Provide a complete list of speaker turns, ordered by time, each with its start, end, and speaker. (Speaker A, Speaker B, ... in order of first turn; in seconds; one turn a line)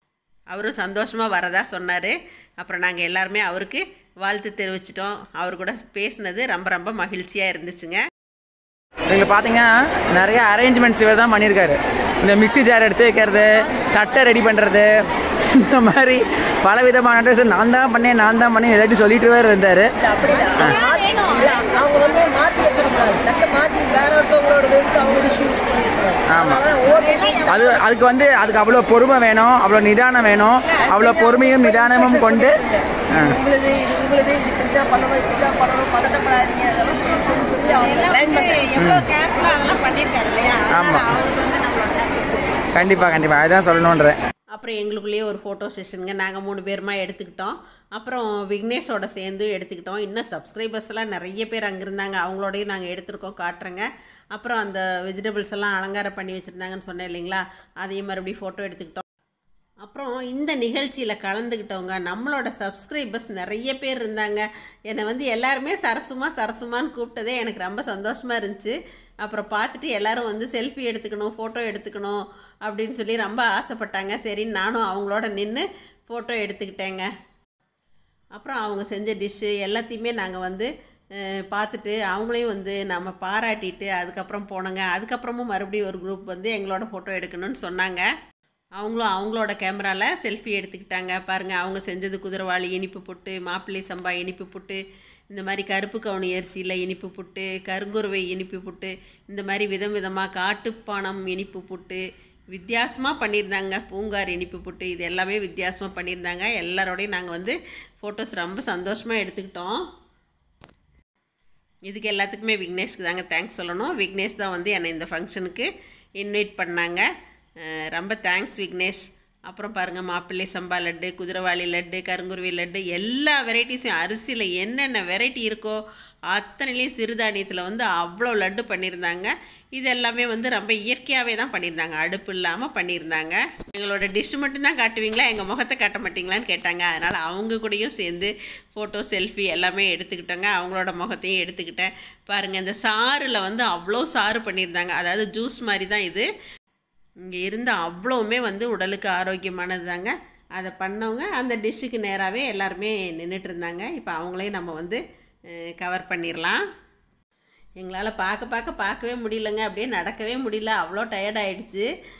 Speaker A: 0.5-8.0
Speaker B: 9.1-19.9
Speaker C: 13.7-14.3
Speaker C: 20.0-28.3
Speaker A: 20.3-22.3
Speaker B: 26.3-26.6
Speaker A: 26.9-27.6
Speaker B: 27.5-32.5
Speaker C: 30.4-38.5
Speaker A: 30.6-31.0
Speaker A: 37.3-43.1
Speaker B: 38.8-39.0
Speaker B: 40.7-41.0
Speaker B: 42.7-44.2
Speaker A: 44.5-59.0
Speaker A: 59.8-77.1
Speaker A: 78.3-80.7
Speaker A: 81.5-88.0
Speaker A: 88.8-94.8
Speaker A: 95.3-102.0
Speaker A: 102.5-109.8
Speaker A: 111.9-115.7
Speaker A: 116.2-117.0
Speaker A: 117.6-125.8
Speaker A: 126.3-146.3
Speaker A: 147.2-155.0
Speaker A: 155.8-156.6
Speaker A: 157.8-161.8